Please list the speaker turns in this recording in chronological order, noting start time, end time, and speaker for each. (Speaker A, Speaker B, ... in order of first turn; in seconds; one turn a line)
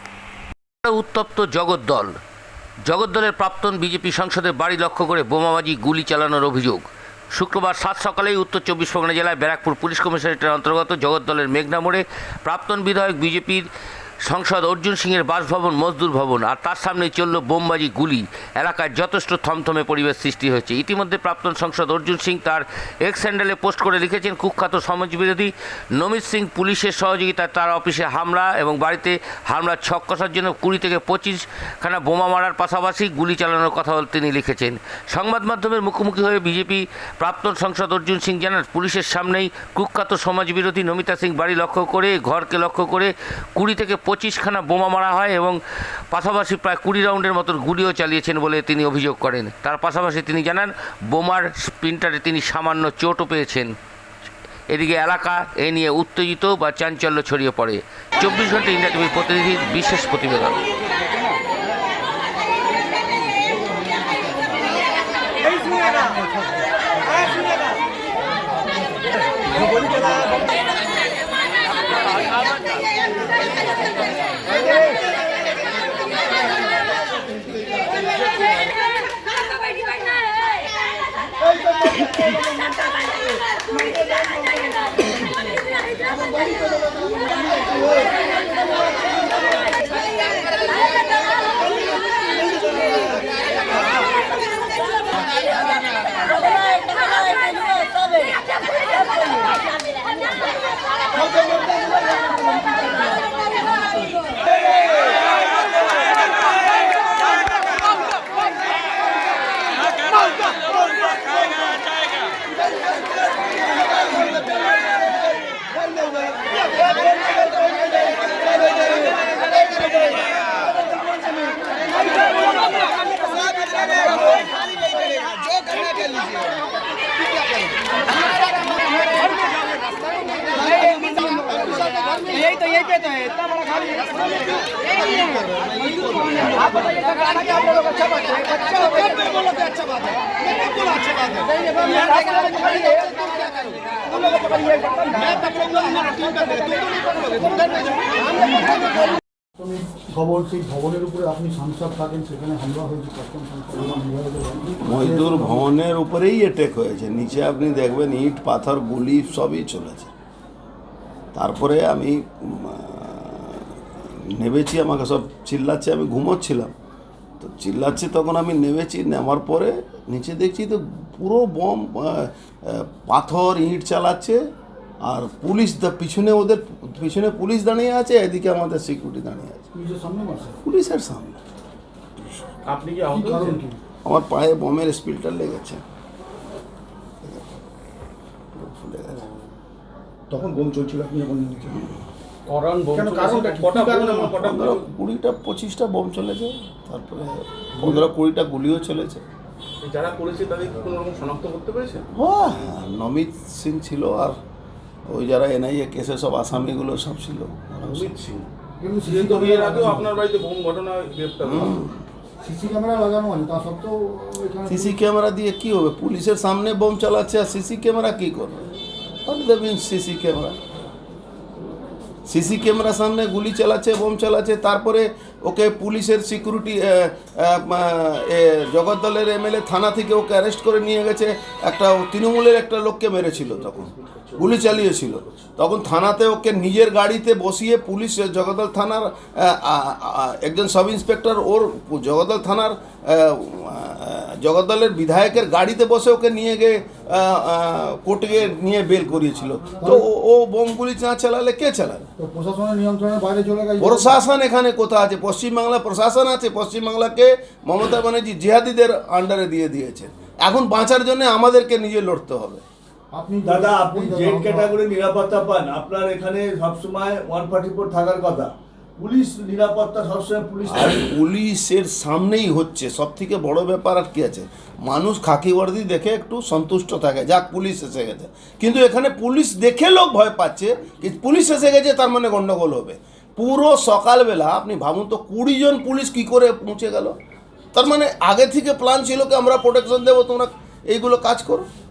Speaker A: 0.8-2.1
Speaker A: 2.9-13.7
Speaker A: 14.2-45.6
Speaker A: 46.1-53.7
Speaker A: 54.7-60.6
Speaker B: 68.6-69.8
Speaker B: 81.9-82.3
Speaker B: 149.6-155.6
Speaker C: 154.8-160.1
Speaker C: 161.3-163.8
Speaker C: 164.3-166.7
Speaker C: 167.4-174.4
Speaker C: 175.1-179.7
Speaker B: 179.7-180.6
Speaker C: 180.6-181.4
Speaker D: 182.6-183.7
Speaker B: 183.1-183.8
Speaker C: 184.0-185.8
Speaker C: 187.2-187.6
Speaker C: 188.5-189.2
Speaker B: 190.3-191.9
Speaker D: 192.5-194.9
Speaker B: 192.9-194.3
Speaker C: 194.3-199.2
Speaker B: 197.8-198.0
Speaker D: 199.8-202.1
Speaker C: 202.1-204.4
Speaker C: 205.1-208.2
Speaker D: 207.8-208.4
Speaker B: 208.8-210.1
Speaker D: 209.0-211.8
Speaker C: 211.4-212.0
Speaker B: 212.4-215.0
Speaker C: 214.7-218.7
Speaker C: 219.2-220.6
Speaker C: 222.3-252.1
Speaker D: 233.6-235.4
Speaker B: 252.2-254.2
Speaker C: 253.8-262.6
Speaker B: 263.1-264.8
Speaker E: 263.4-271.1
Speaker C: 270.6-287.1
Speaker C: 287.7-291.6